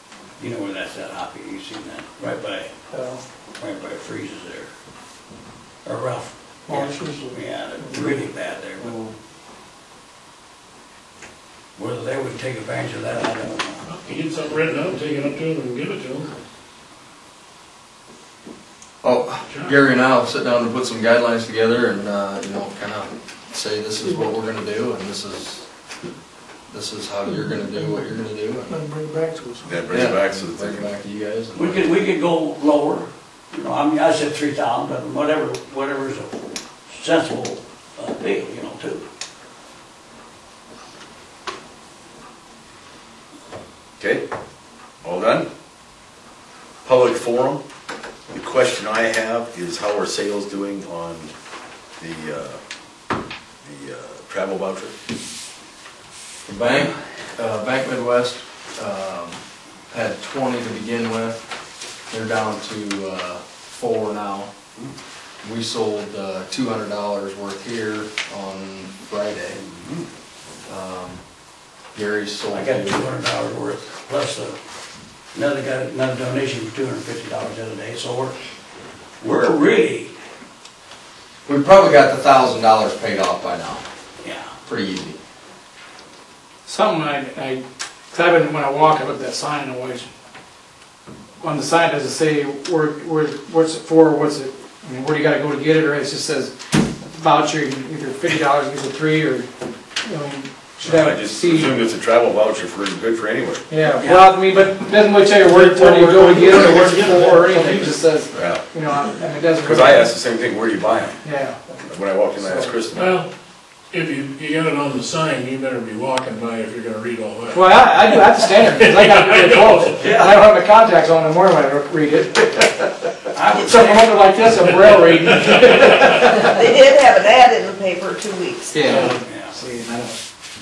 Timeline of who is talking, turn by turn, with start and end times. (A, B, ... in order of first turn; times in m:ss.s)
0:00.4-0:02.7 A
0:02.9-0:03.2 B
0:03.6-0:04.7 A
0:05.8-0:09.0 A
0:06.7-0:08.2 C
0:11.8-0:13.8 A
0:13.8-0:16.3 D
0:19.0-0:25.7 E
0:19.5-0:19.8 D
0:26.7-0:28.8 E
0:27.3-0:28.0 C
0:28.7-0:29.9 C
0:29.6-0:30.9 F
0:29.9-0:31.9 E
0:31.5-0:36.4 A
0:36.9-0:39.0 A
0:44.0-0:44.2 F
0:45.0-0:45.5 F
0:46.8-0:47.6 F
0:48.3-0:51.3 F
0:52.0-0:52.6 F
0:53.6-0:54.9 F
0:56.4-1:01.4 E
1:02.1-1:04.5 E
1:05.4-1:09.6 E
1:09.8-1:10.1 F
1:10.6-1:11.2 E
1:11.9-1:13.1 E
1:12.5-1:14.6 A
1:15.3-1:18.4 A
1:19.2-1:20.1 A
1:21.4-1:23.8 E
1:24.2-1:24.5 A
1:24.6-1:25.2 E
1:26.6-1:30.1 B
1:31.4-1:39.5 B
1:40.0-1:41.8 B
1:40.8-1:43.6 F
1:43.7-1:50.1 B
1:44.0-1:44.3 A
1:45.5-1:48.0 D
1:45.9-1:46.4 A
1:48.3-1:48.6 F
1:49.6-1:51.2 F
1:51.2-1:51.6 B
1:51.8-1:53.2 F
1:52.4-1:52.7 B
1:52.9-1:53.3 D
1:53.9-2:00.0 D
1:57.5-2:02.8 B
2:00.0-2:00.4 A
2:03.3-2:04.1 A
2:03.6-2:06.6 B
2:04.8-2:06.3 D
2:05.9-2:09.2 G
2:08.7-2:10.2 B
2:08.9-2:09.2 D
2:09.2-2:09.6 A